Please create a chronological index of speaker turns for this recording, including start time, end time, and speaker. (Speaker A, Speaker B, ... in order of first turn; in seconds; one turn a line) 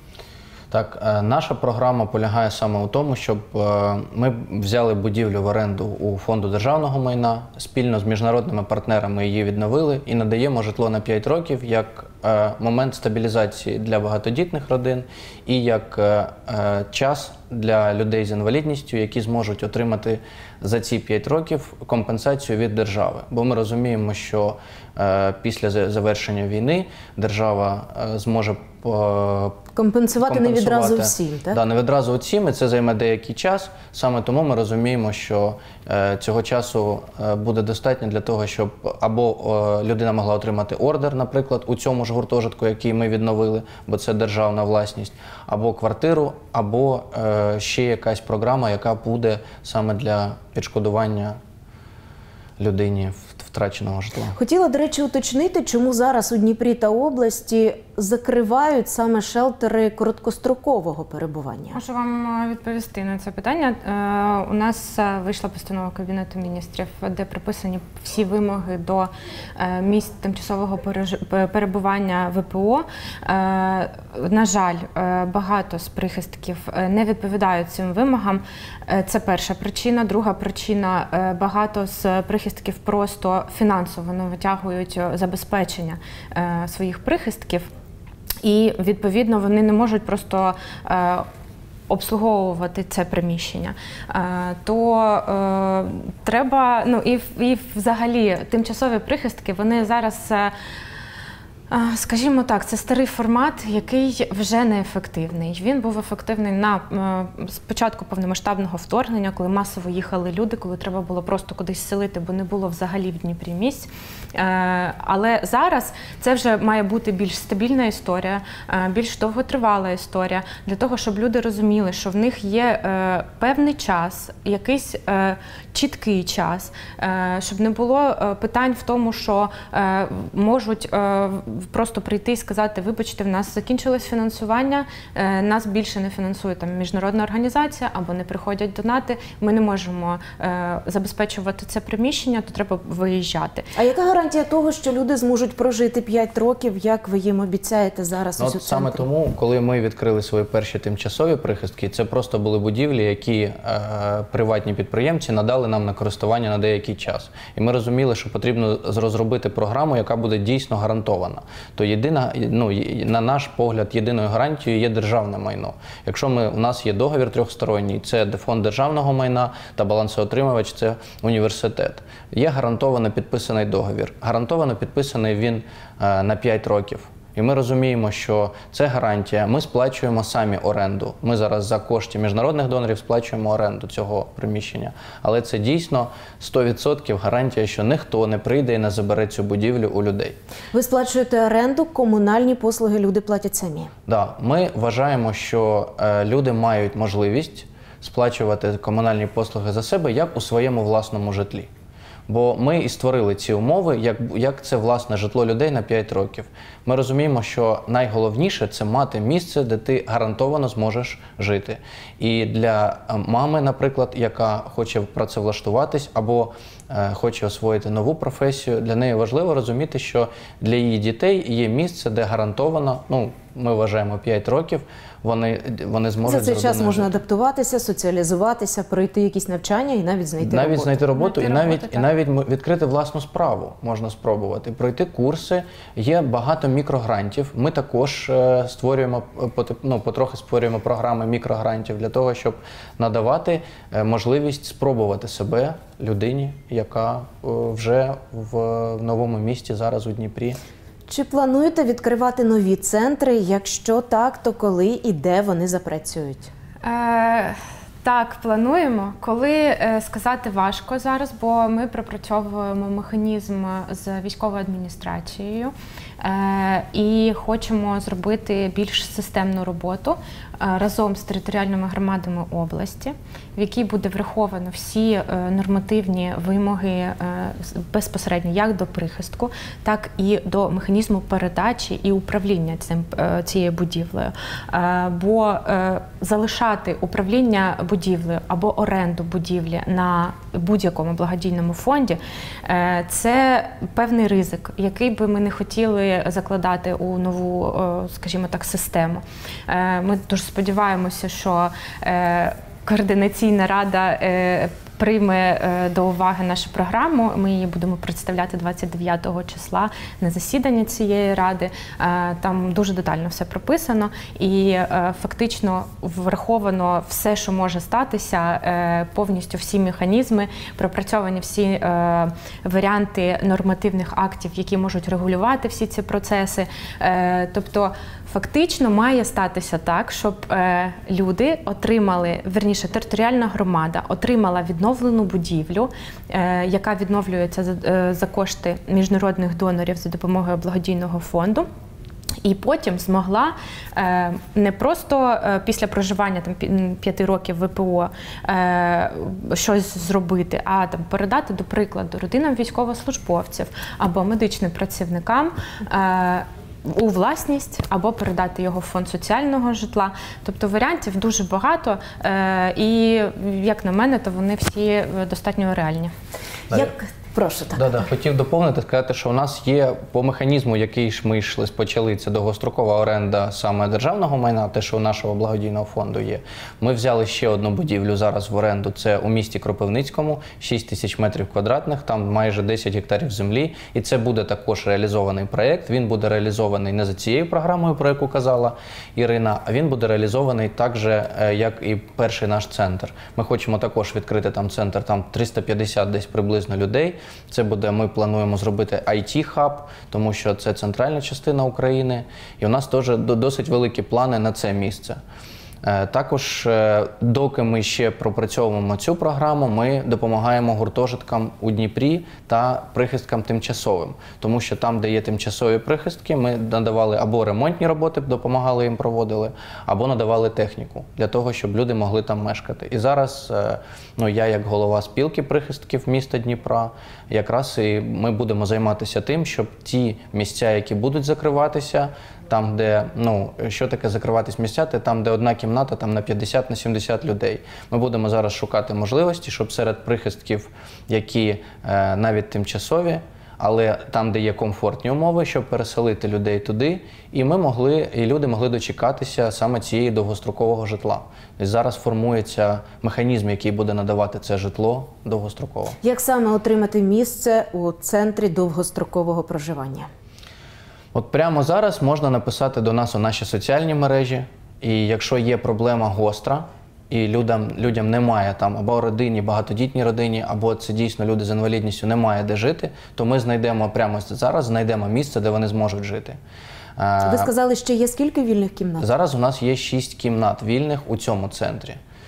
Speaker A: 0.7-29.6
Speaker B: 29.7-31.6
Speaker A: 30.2-51.4
Speaker A: 52.6-54.4
Speaker B: 54.3-61.8
Speaker C: 61.7-87.7
Speaker C: 88.4-91.3
Speaker C: 91.9-100.5
Speaker C: 101.7-143.7
Speaker B: 143.7-149.1
Speaker A: 148.4-190.4
Speaker B: 190.7-193.9
Speaker A: 194.1-201.7
Speaker A: 202.3-227.1
Speaker B: 226.2-231.0
Speaker A: 230.4-250.6
Speaker C: 231.2-232.1
Speaker B: 251.1-256.5
Speaker C: 256.8-341.7
Speaker C: 342.4-366.1
Speaker B: 366.7-367.8
Speaker A: 367.7-405.2
Speaker A: 405.8-456.0
Speaker B: 456.0-460.1
Speaker A: 461.1-476.4
Speaker A: 477.0-477.5
Speaker B: 477.2-479.1
Speaker A: 479.0-482.0